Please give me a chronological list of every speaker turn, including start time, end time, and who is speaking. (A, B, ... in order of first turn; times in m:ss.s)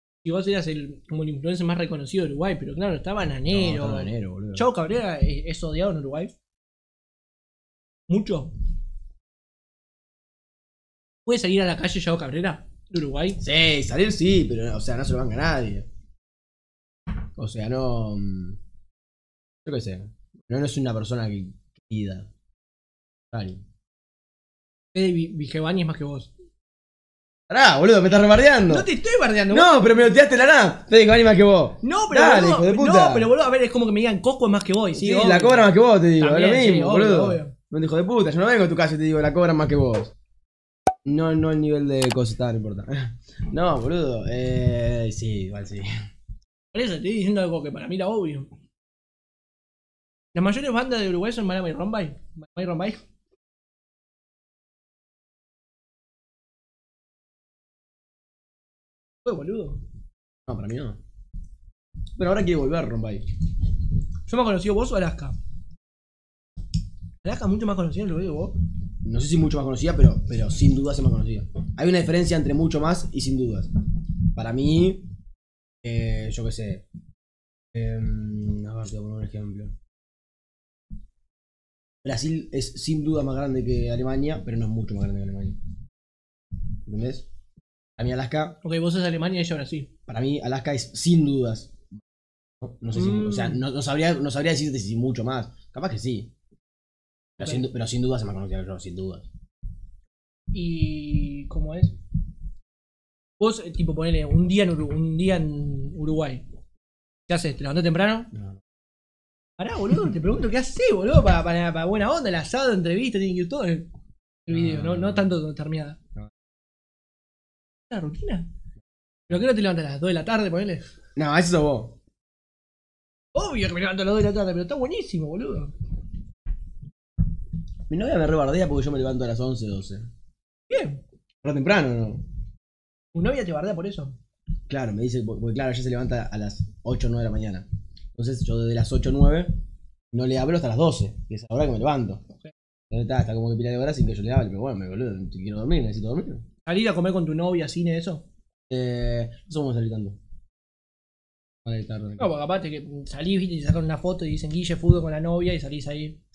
0:00.2-0:06.3 A
0:03.5-0:04.6 B
0:08.1-0:08.5 A
0:11.2-0:13.4 A
0:13.4-0:15.8 B
0:17.4-0:18.6 B
0:19.6-0:22.3 B
0:23.3-0:23.6 B
0:24.9-0:26.3 A
0:27.5-0:28.8 B
0:28.7-0:29.8 A
0:29.5-0:33.3 B
0:31.8-0:37.5 A
0:34.9-0:40.1 B
0:41.0-0:45.9 B
0:46.7-0:48.5 A
0:50.3-0:53.0 A
0:59.2-0:59.8 A
1:00.5-1:01.0 B
1:02.2-1:03.2 B
1:04.3-1:05.4 A
1:07.2-1:08.6 A
1:09.0-1:13.7 B
1:14.3-1:15.0 B
1:15.8-1:16.8 B
1:17.7-1:19.7 B
1:22.0-1:25.6 B
1:26.8-1:27.2 B
1:28.0-1:28.6 B
1:28.6-1:29.9 A
1:30.1-1:31.8 B
1:32.6-1:36.3 B
1:32.9-1:33.6 A
1:37.4-1:39.3 B
1:40.5-1:41.9 A
1:43.4-1:46.4 A
1:47.3-1:48.3 A
1:48.3-1:48.6 B
1:49.6-1:53.9 A
1:54.4-1:56.0 A
1:54.5-1:55.3 B
1:57.9-1:58.5 A
1:59.3-2:00.8 A
2:01.2-2:02.0 B
2:03.3-2:05.7 A
2:07.9-2:10.1 B
2:10.7-2:11.0 A
2:11.4-2:12.2 B
2:13.1-2:14.2 A
2:14.7-2:19.5 B
2:20.1-2:22.2 B
2:22.9-2:26.4 B
2:26.6-2:28.2 A
2:28.7-2:30.2 B
2:31.6-2:32.3 B
2:32.2-2:36.2 A